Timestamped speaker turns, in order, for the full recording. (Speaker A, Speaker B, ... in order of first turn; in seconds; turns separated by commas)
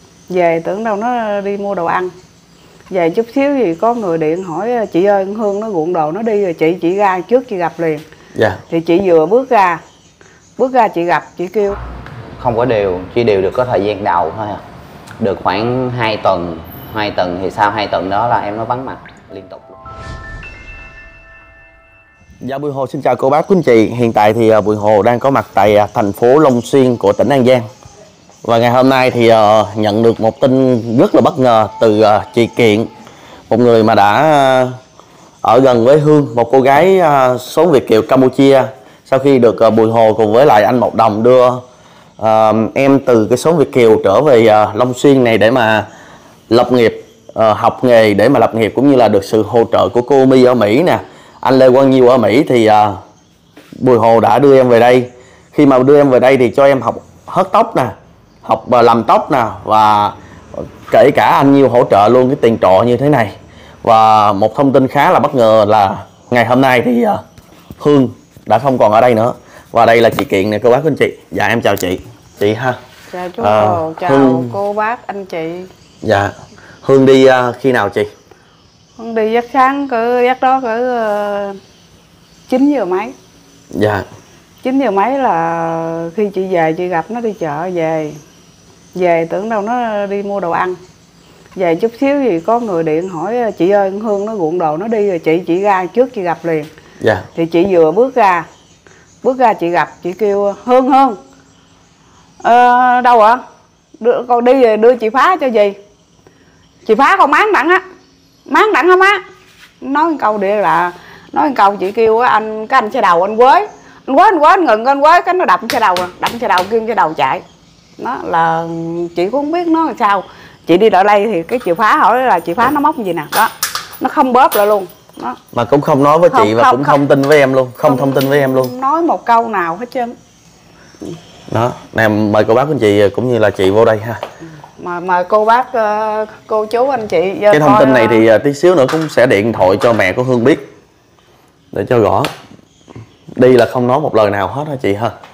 Speaker A: 0.3-2.1, Speaker A: 2.9-8.0, Speaker B: 8.3-8.6, Speaker A: 8.7-9.8, Speaker A: 10.6-11.8, Speaker C: 12.4-14.6, Speaker C: 15.2-19.8, Speaker B: 22.4-27.7, Speaker B: 28.4-32.9, Speaker B: 33.5-34.8, Speaker B: 35.4-41.6, Speaker B: 42.2-45.9, Speaker B: 46.5-53.0, Speaker B: 53.8-67.2, Speaker B: 67.8-72.8, Speaker A: 73.1-75.7, Speaker B: 73.4-74.6, Speaker B: 76.0-78.1, Speaker A: 79.0-81.6, Speaker A: 82.5-83.1, Speaker B: 83.7-84.1, Speaker A: 84.6-88.2, Speaker A: 89.0-90.8, Speaker A: 91.6-96.7, Speaker B: 97.0-97.3, Speaker A: 97.3-98.5, Speaker A: 99.2-101.2, Speaker A: 102.4-103.4, Speaker A: 104.0-105.8, Speaker A: 106.8-107.8, Speaker A: 108.5-109.2, Speaker A: 109.8-117.4, Speaker A: 118.0-125.4, Speaker B: 125.5-128.7, Speaker A: 126.3-127.0, Speaker A: 127.8-130.2, Speaker B: 131.5-134.2, Speaker A: 134.8-138.2, Speaker B: 137.5-140.7, Speaker B: 141.7-142.3, Speaker B: 143.4-145.2